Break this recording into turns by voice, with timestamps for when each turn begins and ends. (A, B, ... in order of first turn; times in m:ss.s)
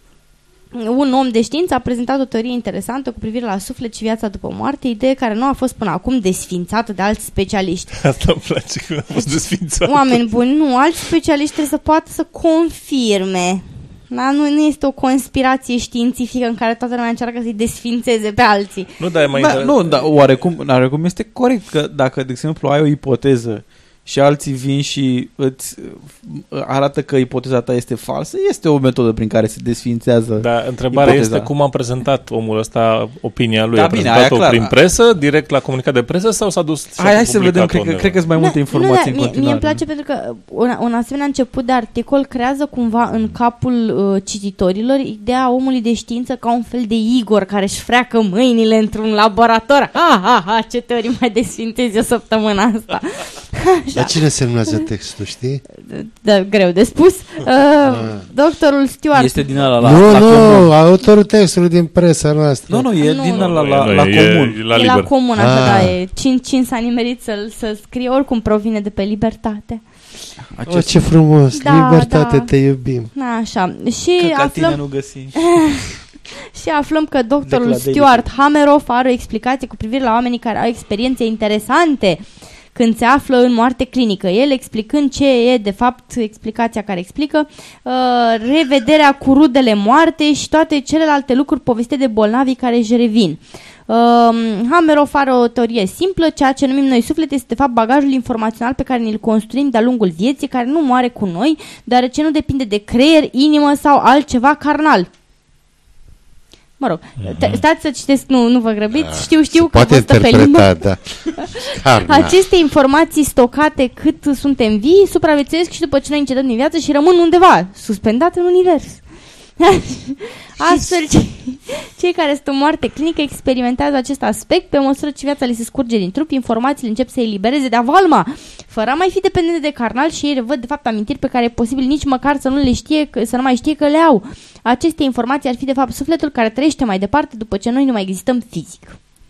0:00.7-0:07.9 A
0:08.0-0:10.2 B
0:09.8-0:18.9 A
0:19.0-0:20.1 B
0:19.4-0:31.5 C
0:30.4-0:38.2 B
0:33.7-0:34.7 C
0:37.0-0:39.8 C
0:38.4-0:54.2 A
0:54.0-0:55.6 D
0:55.8-0:59.4 A
0:58.0-0:58.2 D
0:59.2-1:00.7 C
0:59.8-1:02.9 D
1:02.7-1:04.6 C
1:03.0-1:03.4 A
1:03.4-1:05.1 B
1:04.7-1:09.8 A
1:05.4-1:06.0 D
1:10.5-1:11.1 C
1:10.7-1:13.1 D
1:11.5-1:12.5 A
1:13.1-1:14.8 A
1:14.2-1:15.4 C
1:15.4-1:15.8 A
1:16.5-1:45.1 A
1:17.4-1:18.3 C
1:46.8-1:50.8 A
1:47.2-1:47.6 B
1:48.9-1:52.4 D
1:51.4-1:59.1 A
1:59.6-2:19.0 A